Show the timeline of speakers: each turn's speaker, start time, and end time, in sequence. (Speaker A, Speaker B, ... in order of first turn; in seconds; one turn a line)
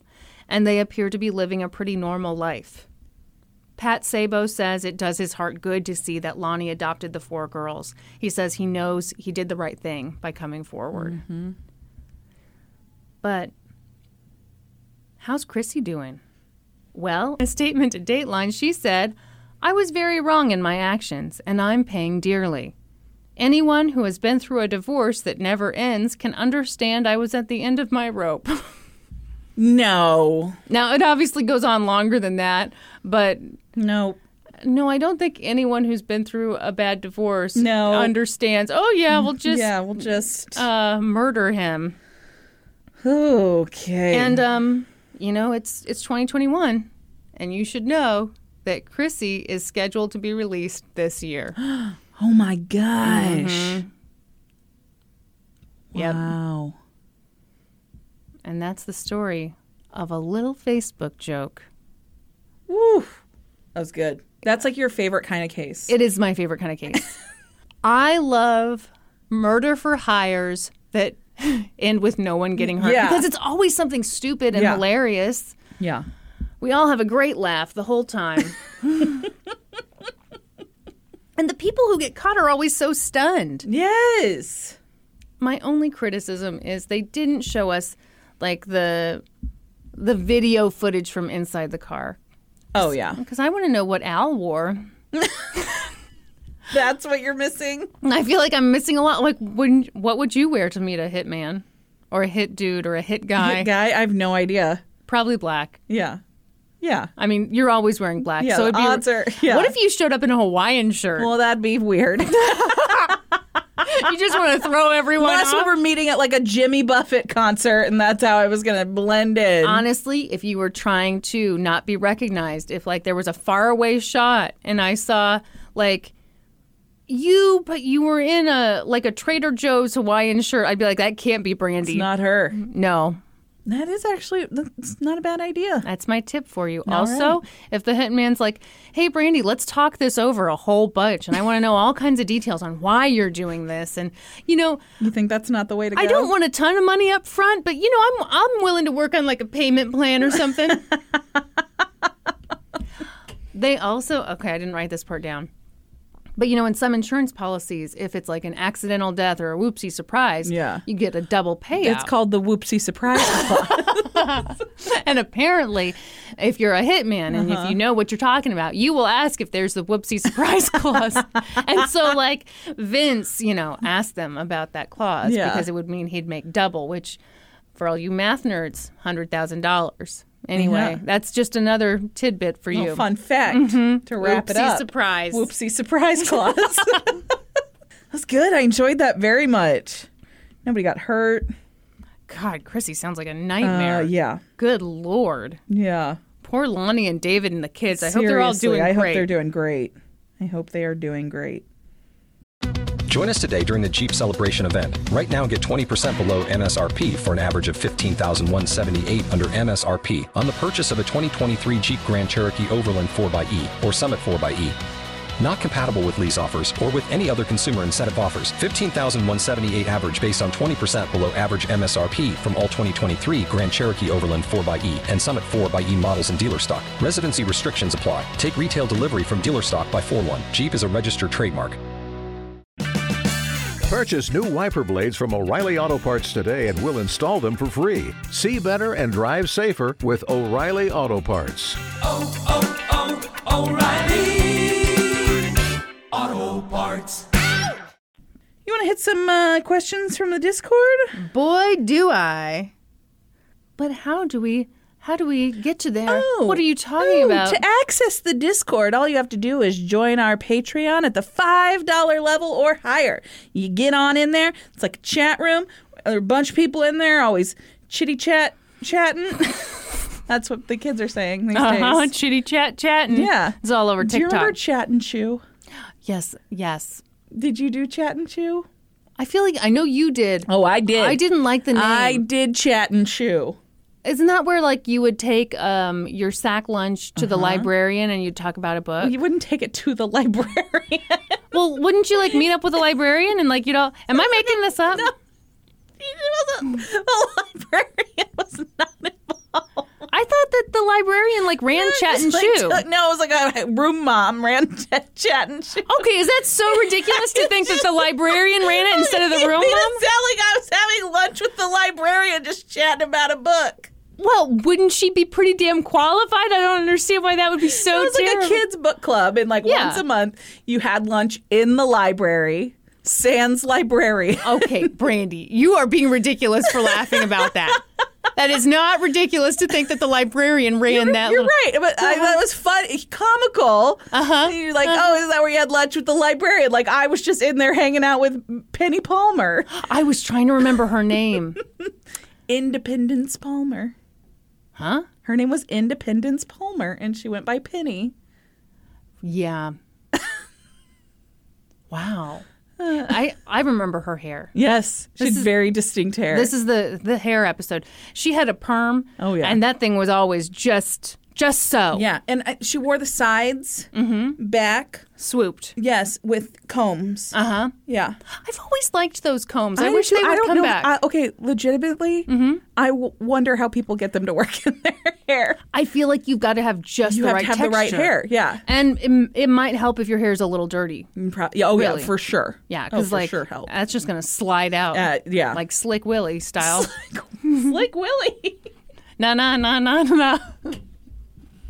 Speaker A: 0.5-2.9
Speaker A: 3.8-11.2
Speaker B: 10.9-11.6
Speaker A: 13.2-13.5
Speaker A: 15.2-16.2
Speaker A: 16.9-22.7
Speaker A: 23.4-28.7
Speaker B: 29.6-30.6
Speaker A: 30.7-33.6
Speaker B: 33.8-34.2
Speaker A: 34.6-42.0
Speaker B: 37.5-38.1
Speaker B: 39.1-40.6
Speaker B: 43.0-44.4
Speaker A: 44.1-51.6
Speaker B: 51.6-53.8
Speaker A: 53.0-53.9
Speaker B: 55.9-56.8
Speaker A: 55.9-56.3
Speaker A: 58.4-61.7
Speaker B: 62.7-63.2
Speaker B: 63.8-65.9
Speaker A: 65.9-67.1
Speaker A: 67.8-75.6
Speaker B: 72.6-73.3
Speaker B: 74.5-74.8
Speaker B: 75.8-76.1
Speaker A: 76.6-79.2
Speaker A: 81.4-83.7
Speaker B: 83.7-84.8
Speaker A: 85.4-89.2
Speaker A: 89.9-92.2
Speaker B: 92.7-93.2
Speaker A: 92.8-94.9
Speaker B: 96.7-97.9
Speaker A: 98.0-103.7
Speaker B: 103.4-104.8
Speaker A: 105.1-105.8
Speaker B: 105.9-106.2
Speaker B: 106.8-107.1
Speaker A: 107.2-111.3
Speaker B: 108.4-109.8
Speaker B: 111.2-113.2
Speaker A: 113.8-115.7
Speaker B: 115.2-119.8
Speaker A: 119.6-126.1
Speaker A: 127.1-133.2
Speaker B: 131.8-132.6
Speaker B: 133.7-135.9
Speaker A: 135.8-144.8
Speaker B: 136.9-137.4
Speaker B: 145.0-146.3
Speaker A: 145.9-150.9
Speaker A: 153.5-155.5
Speaker A: 156.4-162.1
Speaker B: 160.4-160.8
Speaker B: 161.7-164.3
Speaker A: 163.4-177.2
Speaker B: 167.3-167.8
Speaker B: 175.2-175.7
Speaker A: 177.8-185.5
Speaker B: 180.6-181.0
Speaker B: 182.7-187.2
Speaker A: 186.4-186.7
Speaker B: 188.1-190.1
Speaker B: 190.7-191.5
Speaker A: 192.3-195.6
Speaker B: 193.6-194.4
Speaker B: 195.7-196.2
Speaker A: 196.4-199.3
Speaker B: 197.9-201.7
Speaker C: 203.1-214.8
Speaker C: 215.4-231.8
Speaker D: 233.8-241.8
Speaker E: 241.9-245.4
Speaker E: 246.1-247.2
Speaker B: 248.7-251.2
Speaker A: 251.1-252.7
Speaker A: 253.8-257.6
Speaker B: 256.1-272.1
Speaker A: 271.5-274.6
Speaker B: 273.1-275.4
Speaker A: 276.1-277.0
Speaker B: 277.3-278.7
Speaker A: 279.2-282.2
Speaker B: 280.5-283.6
Speaker A: 284.0-289.2
Speaker B: 287.2-287.7
Speaker B: 289.0-291.2
Speaker A: 291.5-295.1
Speaker B: 294.1-295.1
Speaker B: 296.0-299.9
Speaker A: 300.1-302.8
Speaker B: 301.7-306.0
Speaker A: 305.9-310.0
Speaker B: 306.7-313.9
Speaker A: 314.2-318.6
Speaker B: 317.7-324.9
Speaker A: 319.6-320.0
Speaker A: 324.4-327.8
Speaker A: 328.3-332.4
Speaker B: 330.9-339.7
Speaker A: 334.1-335.0
Speaker A: 339.7-341.6
Speaker B: 342.5-343.9
Speaker A: 344.8-345.1
Speaker B: 345.2-348.1
Speaker A: 349.2-349.8
Speaker A: 351.9-354.5
Speaker B: 352.8-353.2
Speaker B: 354.5-356.5
Speaker A: 355.2-355.5
Speaker A: 356.3-362.1
Speaker B: 359.2-359.6
Speaker B: 361.9-365.1
Speaker A: 363.9-364.4
Speaker A: 365.2-365.8
Speaker B: 365.8-367.4
Speaker A: 367.3-367.8
Speaker B: 367.9-368.2
Speaker A: 368.3-370.9
Speaker B: 369.8-375.6
Speaker A: 372.3-372.6
Speaker A: 375.7-381.1
Speaker B: 377.1-378.6
Speaker B: 381.2-383.7
Speaker A: 381.8-382.1
Speaker A: 382.7-386.9
Speaker B: 384.9-385.6
Speaker B: 386.6-388.7
Speaker A: 389.2-390.8